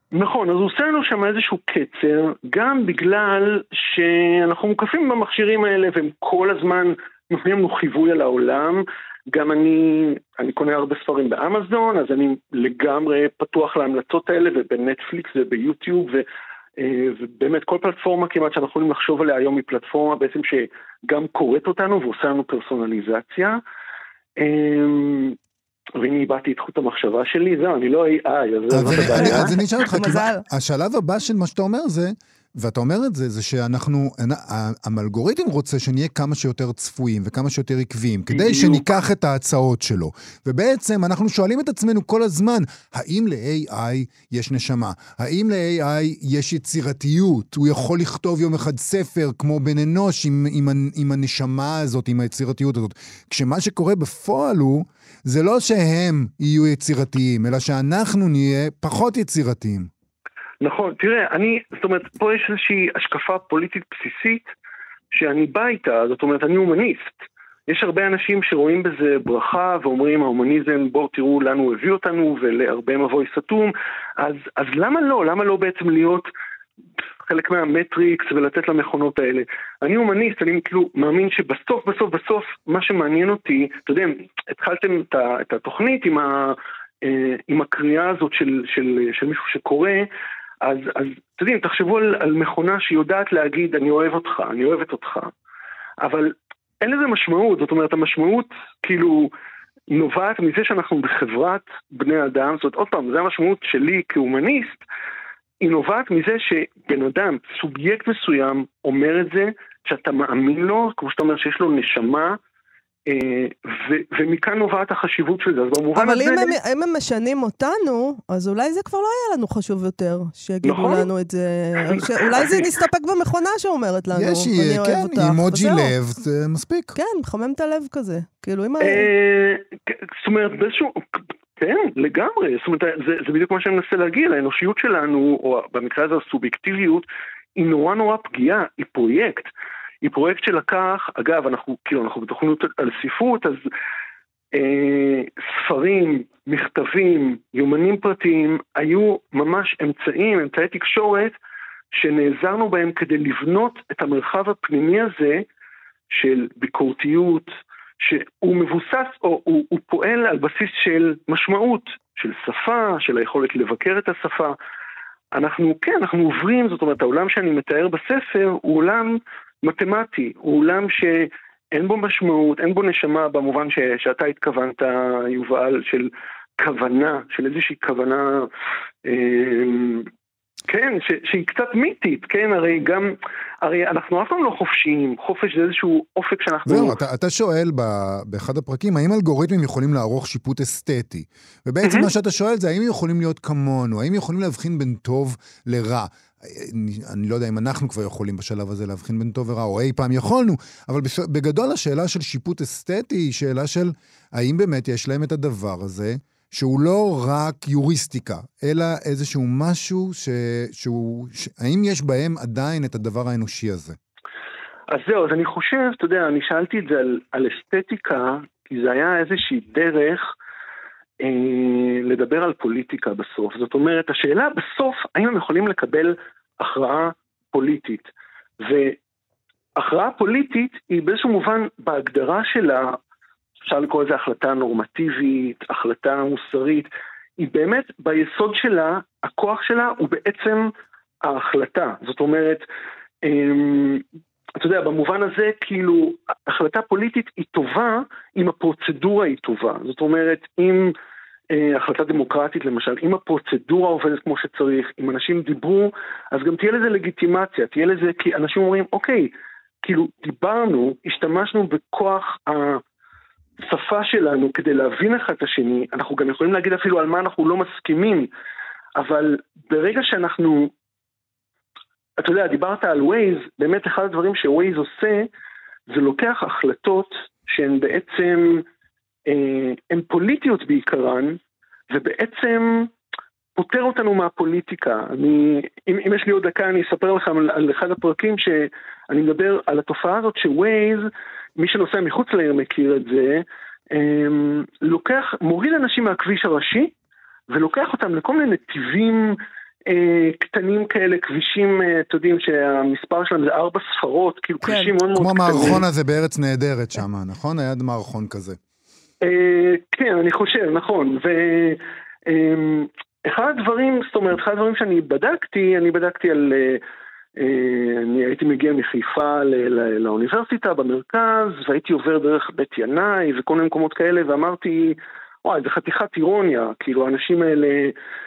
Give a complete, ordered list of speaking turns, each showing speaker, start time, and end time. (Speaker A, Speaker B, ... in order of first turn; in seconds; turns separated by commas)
Speaker A: 0.1-16.3, Speaker A: 16.8-23.6, Speaker A: 24.4-25.4, Speaker A: 26.0-29.5, Speaker B: 28.7-59.9, Speaker C: 28.9-30.4, Speaker A: 38.3-38.9, Speaker A: 60.6-64.5, Speaker A: 65.1-67.2, Speaker A: 67.7-76.3, Speaker A: 77.3-90.1, Speaker A: 90.6-95.3, Speaker A: 96.0-99.3, Speaker A: 99.9-104.8, Speaker A: 105.6-112.4, Speaker A: 113.1-116.6, Speaker C: 116.0-125.9, Speaker A: 120.6-121.1, Speaker A: 121.9-122.6, Speaker B: 124.1-127.0, Speaker C: 127.0-129.1, Speaker A: 128.8-139.5, Speaker A: 140.0-143.6, Speaker A: 144.5-151.3, Speaker A: 151.9-155.4, Speaker A: 156.1-164.6, Speaker A: 165.3-178.5, Speaker A: 179.1-180.1, Speaker A: 180.7-187.0, Speaker B: 186.7-214.0, Speaker A: 191.8-192.1, Speaker A: 214.9-220.3, Speaker A: 221.2-228.1, Speaker A: 228.6-229.0, Speaker A: 229.8-233.0, Speaker A: 233.6-240.7, Speaker A: 241.2-242.7, Speaker A: 243.2-244.0, Speaker A: 244.6-250.9, Speaker A: 251.5-259.3, Speaker A: 259.8-262.8, Speaker A: 263.6-268.3, Speaker A: 269.0-270.7, Speaker A: 272.2-275.3, Speaker A: 275.9-278.6, Speaker A: 279.3-281.4, Speaker A: 281.9-282.9, Speaker A: 283.6-291.1, Speaker A: 291.6-296.9, Speaker A: 297.5-299.4, Speaker A: 299.9-305.8, Speaker C: 304.6-304.9, Speaker B: 305.1-308.6, Speaker A: 309.2-316.8, Speaker A: 317.4-327.9